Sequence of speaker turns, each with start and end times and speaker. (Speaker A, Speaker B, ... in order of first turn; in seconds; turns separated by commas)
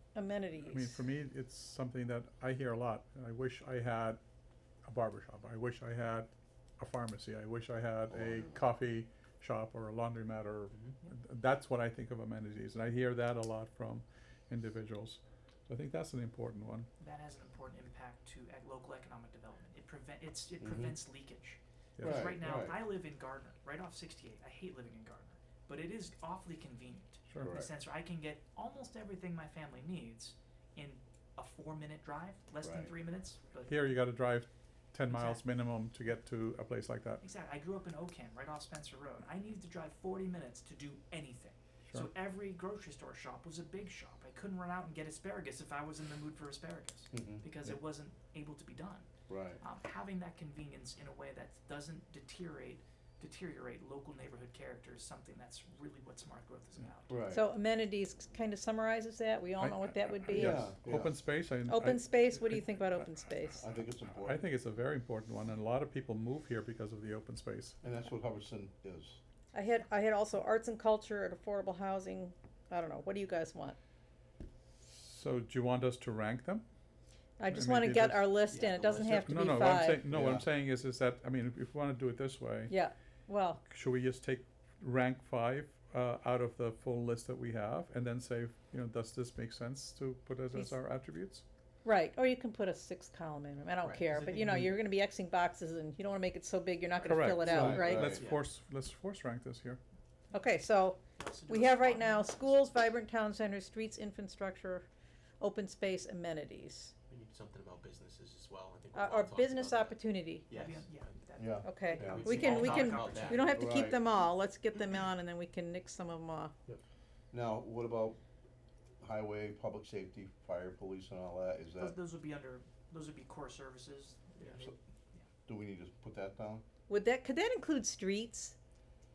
Speaker A: 0.1-1.0, Speaker B: 0.7-4.2, Speaker B: 4.9-16.9, Speaker C: 8.1-8.5, Speaker D: 17.0-33.7, Speaker C: 20.6-21.0, Speaker B: 22.0-22.3, Speaker C: 22.0-22.8, Speaker B: 27.3-27.6, Speaker C: 27.4-27.7, Speaker C: 32.6-32.9, Speaker B: 33.7-37.2, Speaker D: 35.1-35.4, Speaker D: 37.2-57.2, Speaker C: 47.1-47.5, Speaker C: 49.3-49.6, Speaker C: 57.1-57.5, Speaker A: 57.3-60.7, Speaker B: 59.6-62.9, Speaker C: 60.3-61.2, Speaker A: 61.7-63.6, Speaker C: 63.6-64.5, Speaker B: 64.1-67.8, Speaker C: 67.8-69.2, Speaker A: 69.5-73.8, Speaker B: 74.8-76.7, Speaker A: 77.4-80.0, Speaker B: 77.5-78.4, Speaker E: 78.5-79.7, Speaker B: 79.1-82.7, Speaker C: 80.1-80.5, Speaker A: 82.7-83.6, Speaker B: 83.7-91.4, Speaker A: 91.8-98.1, Speaker E: 93.8-94.1, Speaker B: 97.0-99.8, Speaker C: 97.4-98.3, Speaker E: 98.1-98.4, Speaker A: 100.3-104.9, Speaker D: 101.2-102.5, Speaker A: 105.4-106.9, Speaker E: 107.1-111.1, Speaker A: 108.9-110.5, Speaker D: 110.5-113.6, Speaker C: 111.4-112.4, Speaker A: 111.6-116.5, Speaker E: 112.0-113.7, Speaker C: 113.5-114.0, Speaker C: 117.3-118.2, Speaker C: 119.0-122.0, Speaker D: 121.8-125.2, Speaker C: 125.5-126.6, Speaker A: 126.9-128.6